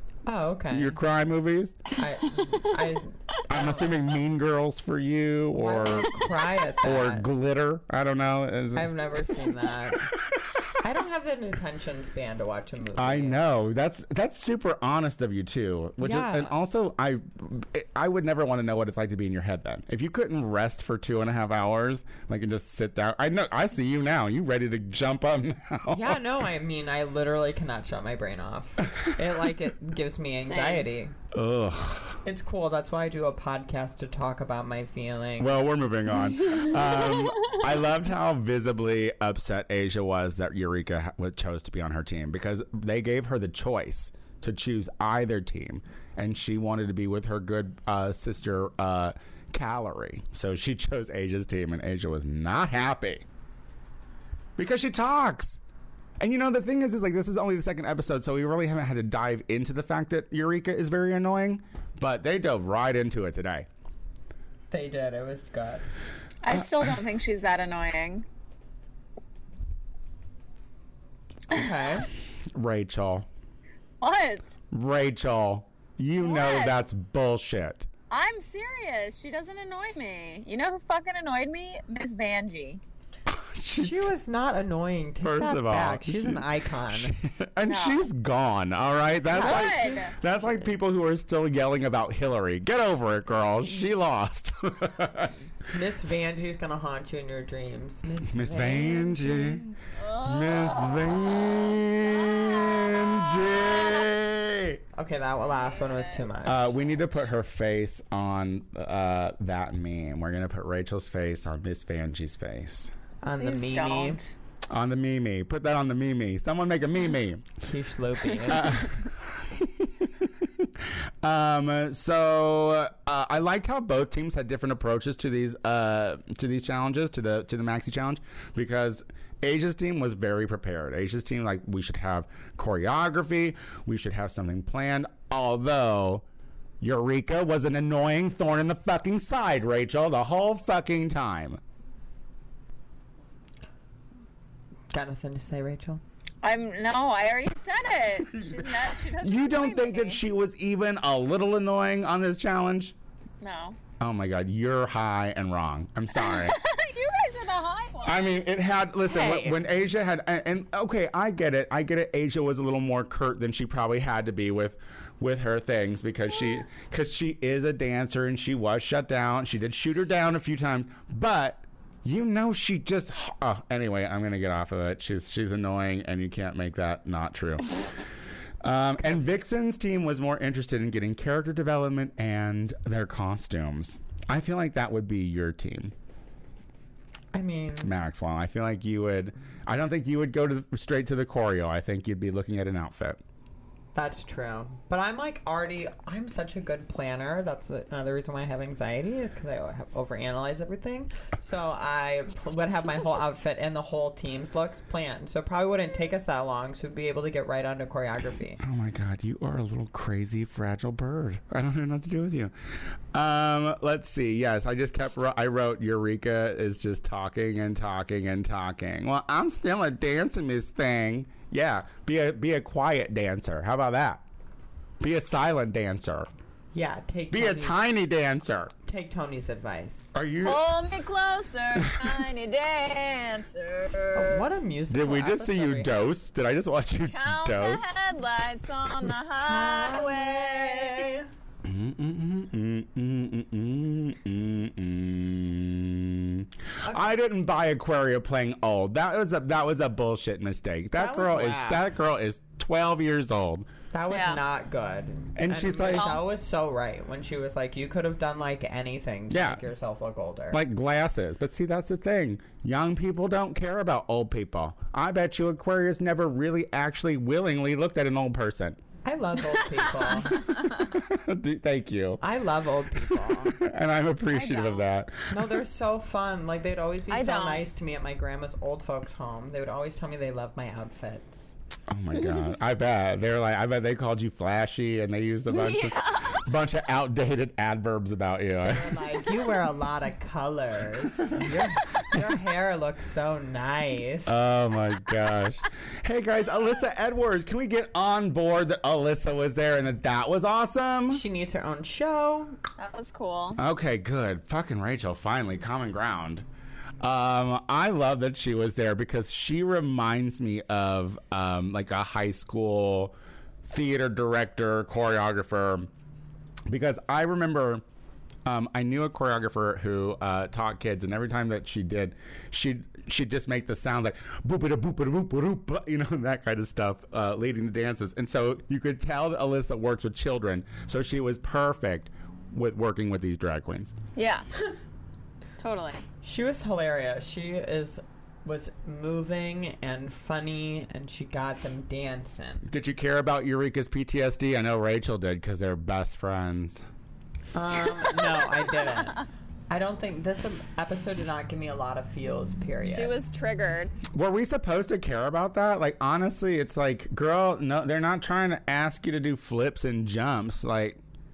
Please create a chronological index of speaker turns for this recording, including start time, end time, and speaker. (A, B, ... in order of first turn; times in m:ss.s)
0:00.2-0:01.0 A
0:00.7-0:01.8 B
0:02.0-0:03.9 A
0:03.5-0:06.3 B
0:05.6-0:07.2 A
0:06.8-0:08.9 B
0:08.7-0:10.1 A
0:10.2-0:10.4 B
0:10.8-0:13.4 A
0:13.0-0:26.2 B
0:16.0-0:16.5 A
0:25.9-0:31.1 A
0:28.9-0:29.2 B
0:30.4-0:30.9 C
0:31.3-0:32.2 B
0:32.2-0:35.7 A
0:35.4-0:53.2 B
0:36.5-0:37.6 C
0:54.6-0:55.6 B
0:56.2-1:03.7 B
1:04.7-1:05.8 A
1:06.4-1:08.2 C
1:06.5-1:06.8 B
1:11.5-1:12.1 A
1:12.5-1:13.2 B
1:14.0-1:14.6 C
1:14.7-1:17.9 B
1:16.2-1:16.9 C
1:18.1-1:22.8 C
1:23.3-1:24.1 B
1:23.8-1:27.1 A
1:25.2-1:35.4 B
1:27.7-1:28.0 C
1:29.3-1:30.0 A
1:29.3-1:30.1 C
1:35.7-1:39.6 A
1:38.2-1:44.8 B
1:40.0-1:44.0 C
1:45.0-1:46.6 A
1:45.6-1:46.6 C
1:46.4-1:52.9 B
1:53.2-1:54.2 A
1:53.4-1:54.3 C
1:54.7-1:57.5 B
1:57.6-1:58.9 A
1:58.4-2:16.2 B
2:16.8-2:21.6 B
2:24.9-2:26.0 A
2:26.4-2:30.2 C
2:29.2-2:32.9 B
2:33.4-2:33.8 C
2:34.0-2:36.6 B
2:36.2-2:38.5 C
2:38.0-2:57.8 B
2:39.1-2:39.5 A
2:58.6-3:05.9 B
3:07.3-3:07.9 A
3:07.8-3:13.2 B
3:13.9-3:28.6 A
3:28.6-3:32.5 B
3:33.1-3:44.2 B
3:45.0-3:46.3 B
3:46.7-3:47.8 A
3:47.3-3:48.7 B
3:48.8-3:50.1 A
3:50.1-3:50.6 B
3:50.4-3:54.4 C
3:51.8-3:52.2 B
3:54.1-3:56.0 A
3:54.9-3:57.9 B
3:57.1-4:01.0 C
3:59.4-4:01.3 A
4:01.6-4:13.7 B
4:06.8-4:07.2 A
4:11.0-4:11.8 A
4:13.9-4:20.6 A
4:14.1-4:14.4 C
4:15.4-4:16.2 B
4:15.9-4:16.2 C
4:19.3-4:19.6 B
4:20.5-4:28.8 B
4:29.0-4:30.4 A
4:30.7-4:32.2 B
4:32.2-4:33.6 A
4:33.1-4:35.5 B
4:34.3-4:34.8 C
4:35.3-4:41.5 A
4:37.1-4:37.6 C
4:41.9-4:49.0 B
4:45.5-4:46.4 C
4:48.6-4:54.4 A
4:54.2-5:01.2 B
5:01.1-5:02.6 A
5:02.8-5:03.6 C
5:03.6-5:06.4 B
5:07.0-5:15.9 B
5:16.7-5:17.8 B
5:18.4-5:33.9 B
5:34.1-5:34.4 C
5:35.6-5:36.0 C
5:36.2-5:42.7 A
5:42.7-5:46.8 B
5:47.5-5:53.1 A
5:48.3-5:49.0 C
5:52.8-5:53.9 C
5:54.1-6:01.0 B